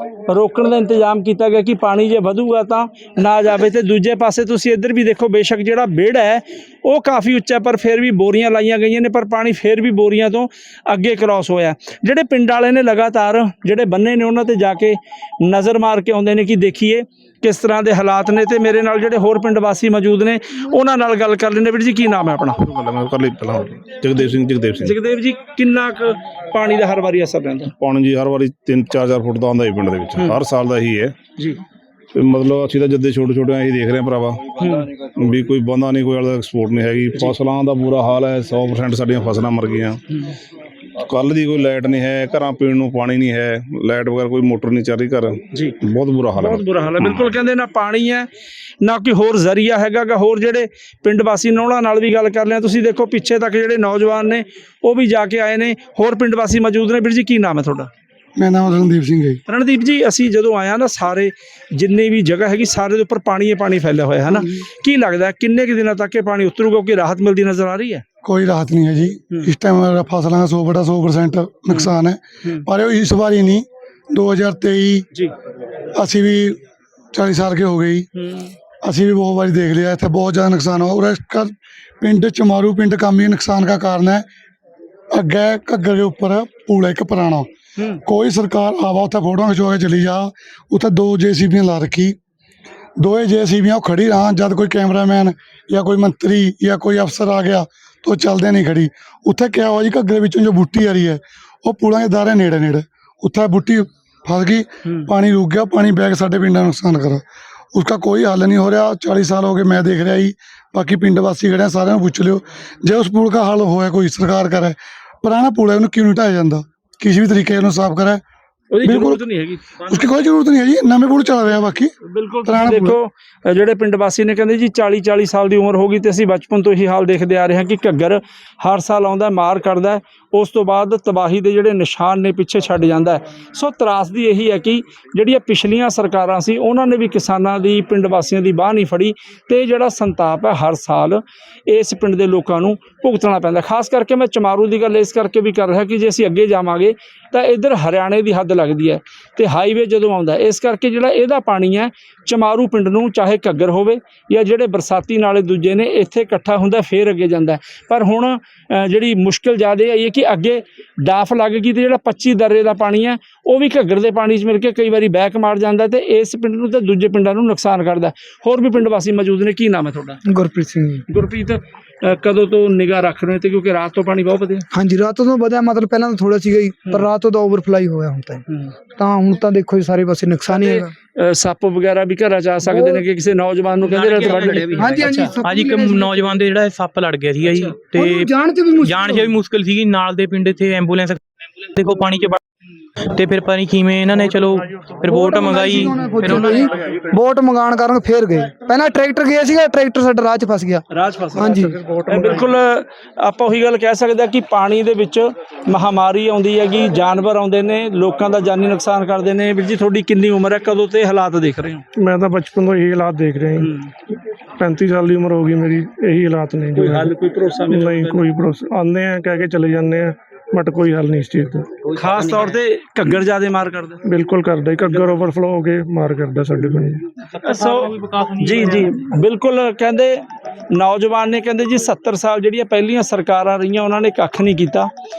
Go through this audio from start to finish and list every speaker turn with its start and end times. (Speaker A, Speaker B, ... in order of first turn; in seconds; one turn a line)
Speaker A: 0.3-22.7
Speaker B: 22.6-24.9
Speaker A: 24.8-27.7
Speaker B: 27.8-31.1
Speaker B: 32.1-34.4
Speaker A: 34.6-34.9
Speaker B: 35.2-40.0
Speaker B: 41.0-47.3
Speaker A: 45.5-45.8
Speaker A: 46.3-48.3
Speaker A: 48.8-57.9
Speaker C: 58.4-59.4
Speaker A: 59.5-68.0
Speaker C: 68.2-75.1
Speaker C: 76.0-76.6
Speaker C: 77.1-78.1
Speaker A: 78.1-78.5
Speaker C: 78.8-84.2
Speaker C: 85.1-87.5
Speaker A: 87.8-88.0
Speaker C: 88.0-92.2
Speaker C: 93.0-118.2
Speaker A: 104.8-105.1
Speaker A: 118.7-120.1
Speaker C: 118.8-119.2
Speaker C: 119.9-121.9
Speaker A: 122.1-170.2
Speaker C: 122.4-123.0
Speaker D: 170.3-171.0
Speaker A: 171.1-174.7
Speaker D: 174.7-178.4
Speaker A: 178.5-178.7
Speaker D: 179.0-180.9
Speaker A: 180.5-185.3
Speaker D: 182.7-183.0
Speaker E: 183.9-184.7
Speaker D: 184.8-186.4
Speaker E: 185.3-191.2
Speaker D: 187.8-189.3
Speaker E: 191.7-192.4
Speaker E: 193.1-196.7
Speaker F: 194.2-194.9
Speaker D: 195.0-201.8
Speaker A: 200.9-211.8
Speaker F: 201.4-202.5
Speaker F: 211.9-213.7
Speaker A: 213.6-213.9
Speaker F: 214.6-217.1
Speaker A: 216.7-218.3
Speaker F: 217.7-221.7
Speaker A: 221.9-224.0
Speaker F: 224.0-227.0
Speaker A: 224.8-225.2
Speaker E: 227.3-228.9
Speaker A: 227.4-234.9